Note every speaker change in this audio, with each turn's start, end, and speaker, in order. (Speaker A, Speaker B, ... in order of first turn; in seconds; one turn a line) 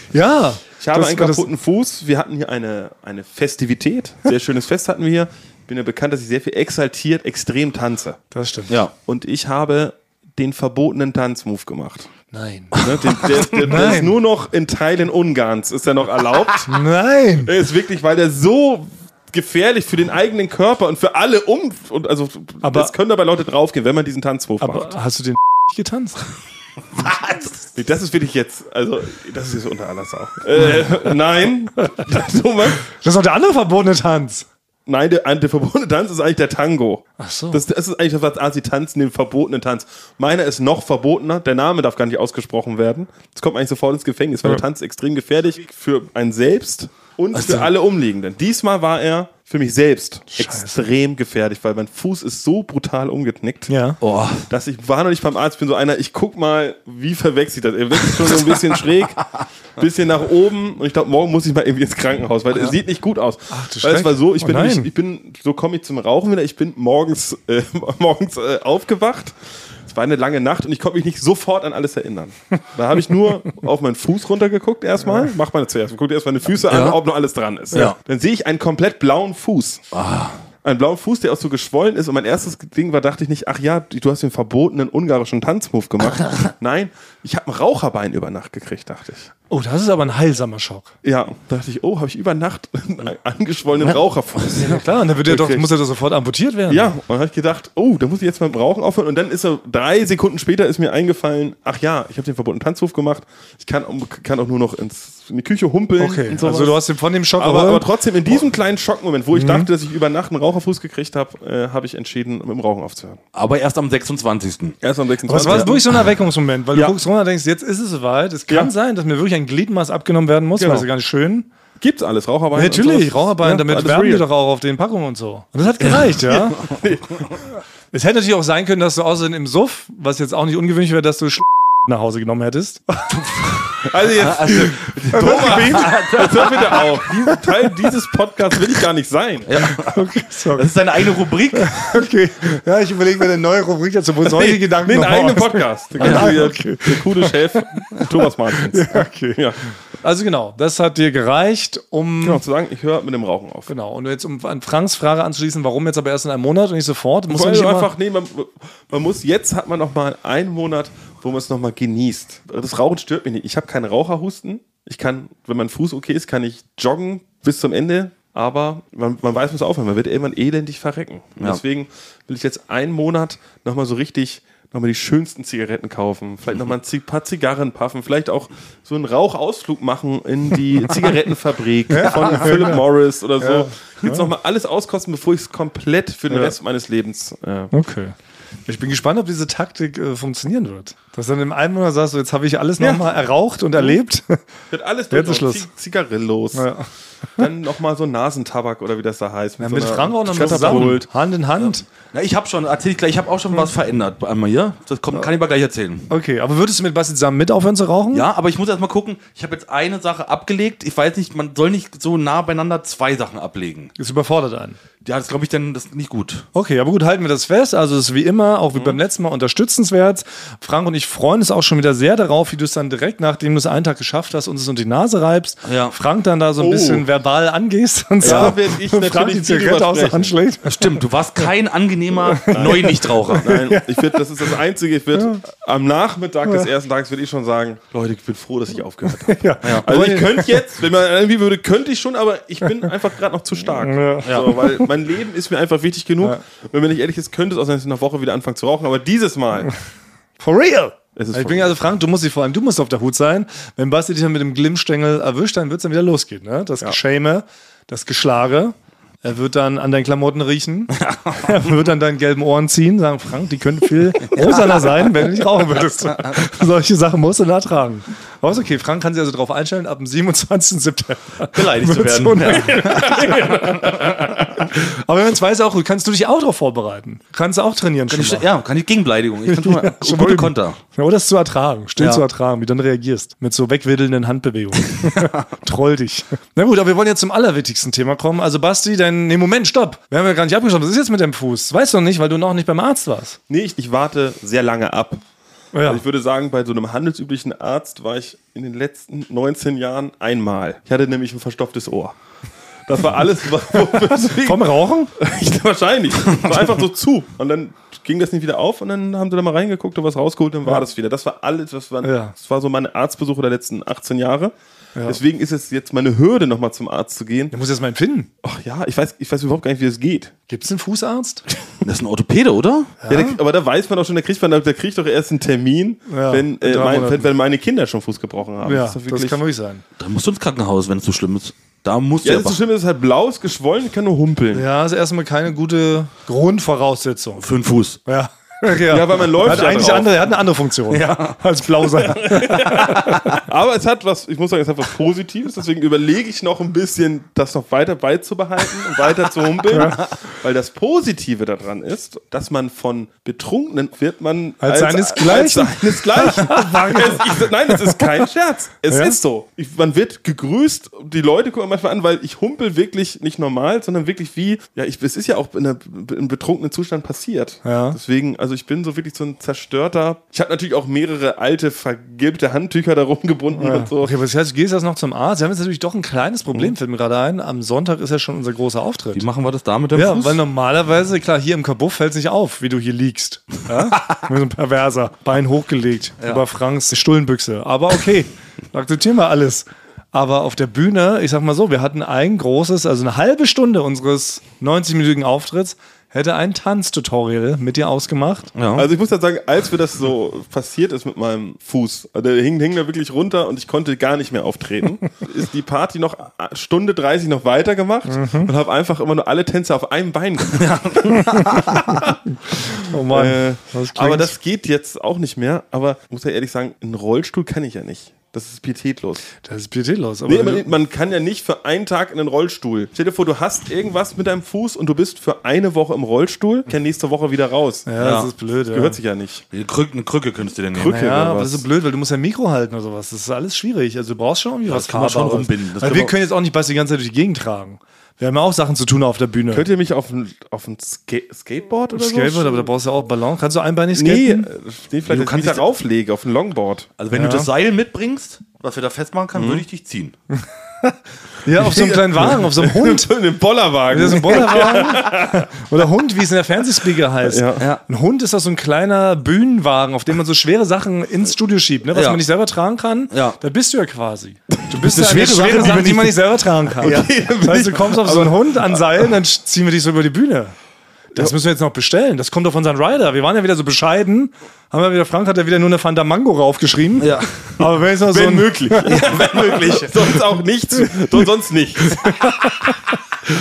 Speaker A: 0.1-1.5
Speaker B: 0.8-8.2
Speaker A: 8.3-8.7
Speaker B: 9.1-12.1
Speaker A: 12.3-14.2
Speaker B: 12.8-16.8
Speaker A: 16.7-17.5
Speaker B: 17.4-24.9
Speaker A: 22.6-22.9
Speaker A: 24.6-26.2
Speaker C: 27.1-27.4
Speaker B: 27.7-32.8
Speaker A: 32.9-34.5
Speaker B: 34.9-53.7
Speaker A: 37.2-37.6
Speaker A: 50.3-50.8
Speaker A: 53.7-54.0
Speaker C: 54.0-54.5
Speaker B: 54.5-79.8
Speaker A: 63.5-64.9
Speaker C: 76.7-77.0
Speaker C: 79.9-80.4
Speaker B: 80.6-89.3
Speaker A: 89.5-90.9
Speaker B: 91.0-95.7
Speaker A: 94.5-96.9
Speaker B: 96.7-106.8
Speaker A: 106.0-107.9
Speaker B: 107.4-113.2
Speaker A: 109.3-109.7
Speaker C: 113.3-114.8
Speaker B: 114.8-115.9
Speaker A: 115.3-121.5
Speaker C: 115.4-115.8
Speaker B: 116.7-117.0
Speaker B: 120.6-120.9
Speaker B: 121.8-124.2
Speaker A: 122.5-126.8
Speaker B: 126.2-127.4
Speaker A: 127.9-133.9
Speaker B: 133.8-139.5
Speaker C: 134.2-137.0
Speaker A: 135.1-137.5
Speaker C: 139.5-141.9
Speaker A: 139.8-140.8
Speaker A: 141.5-152.4
Speaker B: 144.2-149.6
Speaker C: 146.0-146.3
Speaker B: 152.2-153.7
Speaker A: 153.7-157.9
Speaker B: 157.3-187.7
Speaker A: 181.9-182.8
Speaker A: 183.4-184.3
Speaker A: 187.7-188.1
Speaker A: 188.7-194.4
Speaker B: 192.8-193.1
Speaker B: 194.7-196.7
Speaker A: 195.1-195.7
Speaker A: 196.5-196.9
Speaker B: 197.4-201.1
Speaker A: 199.6-201.8
Speaker C: 201.6-206.1
Speaker A: 206.1-208.3
Speaker C: 208.1-213.9
Speaker A: 214.0-214.8
Speaker C: 215.0-216.5
Speaker A: 216.5-231.1
Speaker C: 225.7-226.0
Speaker B: 226.6-227.1
Speaker B: 228.2-230.4
Speaker C: 228.2-228.5
Speaker C: 230.6-233.5
Speaker A: 232.3-234.2
Speaker B: 232.3-249.7
Speaker A: 235.2-235.4
Speaker A: 239.2-240.6
Speaker C: 239.6-239.9
Speaker A: 243.8-244.9
Speaker C: 244.2-244.5
Speaker A: 250.4-278.5
Speaker B: 251.2-251.8
Speaker C: 260.9-261.6
Speaker C: 271.4-273.5
Speaker B: 272.7-274.1
Speaker C: 278.1-280.8
Speaker A: 279.5-293.4
Speaker C: 282.0-282.2
Speaker B: 293.5-295.2
Speaker A: 295.7-296.0
Speaker B: 295.8-302.2
Speaker B: 302.9-314.5
Speaker A: 304.0-305.1
Speaker A: 312.0-312.3
Speaker B: 315.1-317.5
Speaker A: 317.5-318.3
Speaker B: 318.4-320.3
Speaker A: 320.5-321.4
Speaker C: 321.8-322.9
Speaker A: 323.0-323.4
Speaker B: 323.1-329.4
Speaker A: 326.1-327.3
Speaker A: 328.6-329.8
Speaker C: 330.0-332.6
Speaker B: 332.2-334.6
Speaker A: 334.5-337.4
Speaker C: 337.4-338.0
Speaker A: 338.1-343.4
Speaker B: 338.9-340.2
Speaker C: 340.9-341.4
Speaker B: 342.0-374.1
Speaker C: 343.1-343.4
Speaker A: 349.7-350.0
Speaker A: 354.6-358.1
Speaker A: 358.9-359.2
Speaker A: 367.6-368.0
Speaker A: 373.6-379.2
Speaker C: 379.1-380.4
Speaker A: 379.9-398.5
Speaker C: 398.6-398.9
Speaker B: 398.8-411.3
Speaker A: 408.1-408.5
Speaker C: 410.5-412.0
Speaker A: 411.6-412.0
Speaker B: 411.9-412.1
Speaker A: 412.7-414.3
Speaker B: 413.1-419.2
Speaker A: 419.4-420.7
Speaker B: 420.3-427.9
Speaker A: 427.9-429.0
Speaker C: 428.0-428.3
Speaker B: 428.7-429.4
Speaker C: 429.5-431.0
Speaker B: 430.7-431.6
Speaker A: 430.9-439.7
Speaker C: 434.7-436.1
Speaker B: 439.5-442.7
Speaker A: 441.9-444.5
Speaker B: 443.9-446.9
Speaker C: 445.1-445.6
Speaker C: 447.0-450.1
Speaker A: 447.1-447.5
Speaker B: 449.4-449.6
Speaker A: 450.8-453.1
Speaker B: 451.6-455.5
Speaker A: 453.9-470.6
Speaker B: 457.2-457.6
Speaker C: 461.9-462.2
Speaker C: 463.1-463.4
Speaker C: 464.8-467.1
Speaker B: 466.8-469.0
Speaker A: 471.1-479.0
Speaker C: 477.0-477.6
Speaker B: 478.1-482.3
Speaker C: 478.9-480.0
Speaker A: 482.0-482.8